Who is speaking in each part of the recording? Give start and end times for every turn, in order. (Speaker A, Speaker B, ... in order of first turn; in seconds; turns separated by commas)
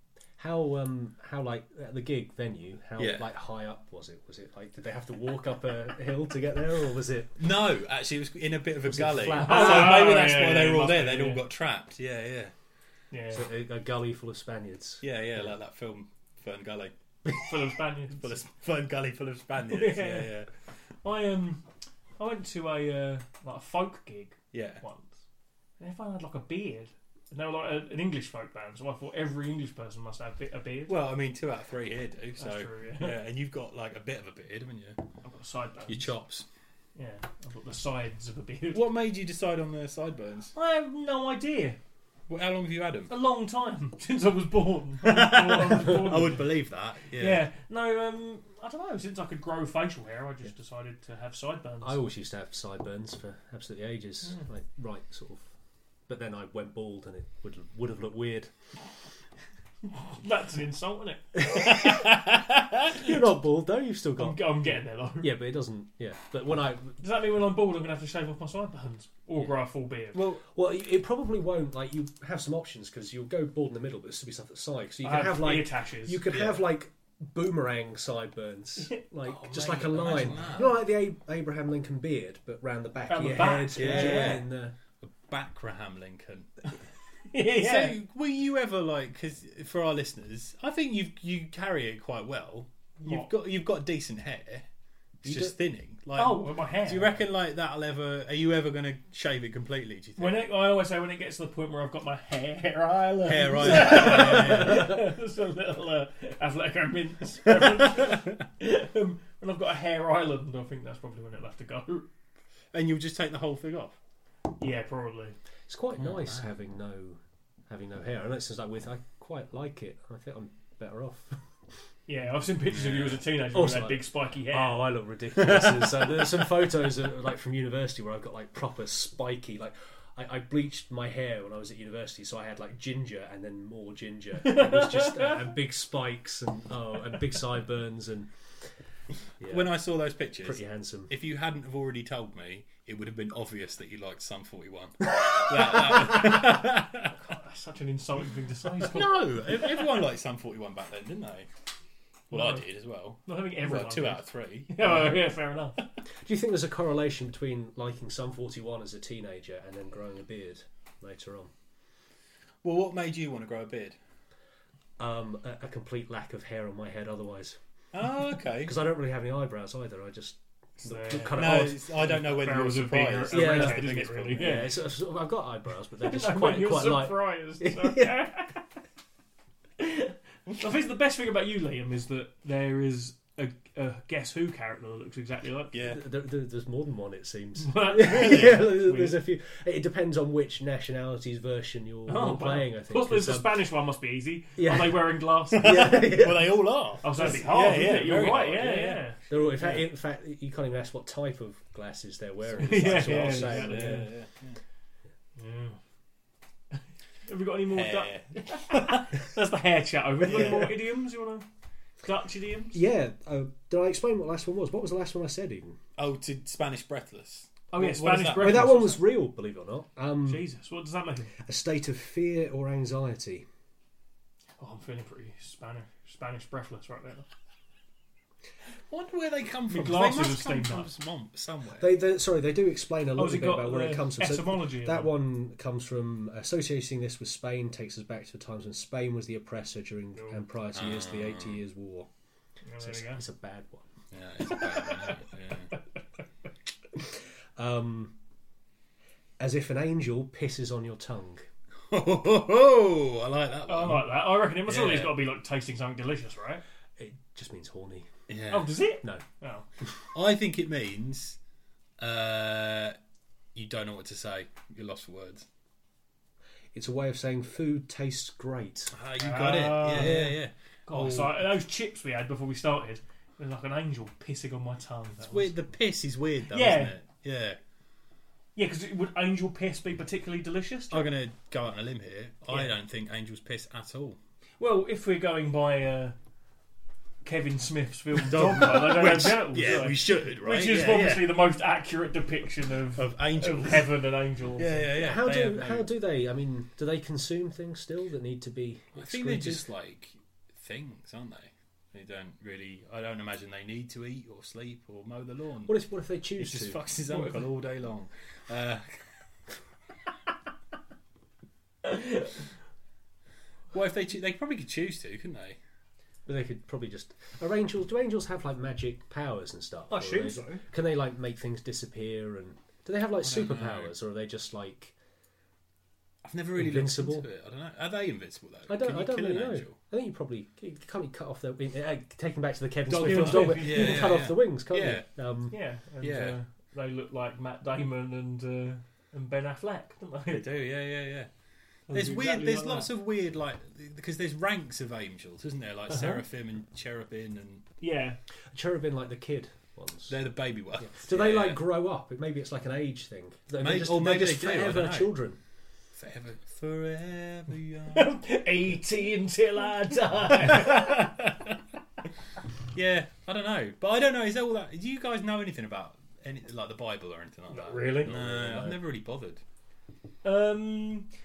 Speaker A: 0.4-7.4, Speaker B: 3.0-3.2, Speaker B: 7.4-12.5, Speaker A: 8.9-10.0, Speaker C: 9.4-11.4, Speaker C: 13.1-13.5, Speaker A: 13.3-15.5, Speaker B: 15.0-16.9, Speaker C: 17.3-18.4, Speaker B: 18.2-20.5, Speaker C: 19.7-20.3, Speaker C: 21.0-21.6, Speaker C: 22.2-25.2, Speaker B: 24.5-24.8, Speaker C: 25.8-31.0, Speaker B: 30.9-35.0, Speaker C: 32.4-33.2, Speaker C: 35.2-36.1, Speaker B: 35.9-36.5, Speaker C: 37.0-38.8, Speaker B: 38.7-40.5, Speaker C: 40.5-41.8, Speaker B: 42.3-43.1, Speaker C: 43.1-46.5, Speaker B: 45.0-47.5, Speaker C: 47.2-52.0, Speaker A: 51.8-55.5, Speaker A: 56.1-58.5, Speaker C: 60.0-61.4, Speaker B: 61.4-63.1, Speaker A: 61.5-62.0, Speaker A: 62.9-67.0, Speaker C: 64.2-65.3, Speaker C: 67.0-70.3, Speaker A: 70.1-84.8, Speaker C: 75.0-76.3, Speaker B: 76.3-76.6, Speaker B: 79.2-80.8, Speaker C: 83.1-84.4, Speaker B: 83.7-84.5, Speaker B: 85.0-86.8, Speaker C: 87.3-88.0, Speaker B: 87.3-94.7, Speaker C: 93.0-93.3, Speaker B: 95.2-100.5, Speaker A: 95.2-95.5, Speaker C: 96.2-97.2, Speaker C: 100.2-112.1, Speaker B: 103.2-105.0, Speaker B: 107.5-108.2, Speaker B: 112.7-114.0, Speaker C: 114.6-115.4, Speaker A: 115.7-121.4, Speaker B: 116.0-116.4, Speaker C: 122.1-124.8, Speaker B: 122.7-123.2, Speaker A: 123.5-138.3, Speaker B: 125.4-126.5, Speaker C: 134.4-135.5, Speaker A: 139.4-139.7, Speaker B: 139.4-147.2, Speaker A: 140.4-141.1, Speaker C: 147.2-149.8, Speaker B: 148.8-151.5, Speaker C: 152.3-152.6, Speaker B: 152.3-155.1, Speaker C: 153.3-155.8, Speaker A: 156.2-161.5, Speaker B: 162.6-164.0, Speaker A: 165.0-167.6, Speaker B: 167.9-168.8, Speaker A: 168.6-171.9, Speaker C: 170.8-174.7, Speaker B: 171.3-174.7, Speaker A: 173.3-178.2, Speaker C: 176.0-178.6, Speaker C: 179.8-185.8, Speaker B: 185.7-186.0, Speaker A: 185.8-193.6, Speaker C: 187.6-189.2, Speaker B: 188.2-188.6, Speaker C: 192.1-196.1, Speaker A: 194.6-196.6, Speaker B: 195.6-199.1, Speaker C: 197.0-199.9, Speaker A: 199.3-204.1, Speaker C: 202.6-204.1, Speaker B: 202.7-204.6, Speaker C: 205.4-205.8, Speaker C: 207.3-211.5, Speaker B: 207.7-209.1, Speaker B: 210.2-210.7, Speaker A: 210.3-210.7, Speaker C: 212.0-212.8, Speaker A: 212.7-215.8, Speaker B: 216.0-218.8, Speaker C: 217.7-219.0, Speaker A: 218.4-220.4, Speaker C: 220.3-221.3, Speaker A: 221.4-223.5, Speaker C: 224.6-227.3, Speaker B: 228.9-231.9, Speaker C: 229.7-230.9, Speaker A: 231.8-242.1, Speaker C: 233.2-235.2, Speaker B: 240.8-241.6, Speaker C: 242.7-243.2, Speaker A: 242.8-243.9, Speaker B: 244.1-245.8, Speaker A: 247.0-248.2, Speaker A: 249.4-251.5, Speaker B: 251.9-255.2, Speaker C: 253.7-256.6, Speaker A: 257.0-258.1, Speaker B: 258.3-258.8, Speaker C: 258.5-259.7, Speaker B: 260.1-261.4, Speaker B: 262.0-263.0, Speaker B: 263.6-265.5, Speaker A: 266.7-268.9, Speaker B: 268.9-271.5, Speaker C: 269.2-270.3, Speaker A: 269.9-270.4, Speaker C: 270.9-275.5, Speaker B: 275.2-277.6, Speaker C: 276.5-276.9, Speaker C: 278.6-281.1, Speaker B: 280.9-284.2, Speaker C: 284.6-286.1, Speaker C: 287.2-294.9, Speaker B: 288.2-291.4, Speaker B: 292.9-293.9, Speaker B: 294.6-295.9, Speaker A: 294.9-299.6, Speaker B: 299.0-305.7, Speaker A: 305.7-306.8, Speaker B: 306.4-309.1, Speaker C: 307.1-307.4, Speaker C: 311.9-312.2, Speaker B: 313.7-315.6, Speaker A: 316.3-324.9, Speaker C: 319.9-320.6, Speaker B: 323.2-323.9, Speaker B: 326.2-329.8, Speaker A: 326.6-327.3, Speaker A: 328.7-335.6, Speaker C: 332.9-334.1, Speaker B: 332.9-335.1, Speaker C: 335.5-340.5, Speaker B: 336.0-336.4, Speaker B: 340.3-341.3, Speaker C: 341.9-342.9, Speaker B: 341.9-347.6, Speaker C: 345.9-346.2, Speaker C: 347.8-348.2, Speaker A: 348.5-350.1, Speaker B: 350.1-351.6, Speaker A: 350.8-355.4, Speaker B: 353.6-355.1, Speaker B: 356.0-358.1, Speaker C: 357.9-361.1, Speaker B: 360.3-361.5, Speaker B: 362.7-369.4, Speaker C: 367.5-368.1, Speaker A: 368.0-368.8, Speaker C: 370.2-371.1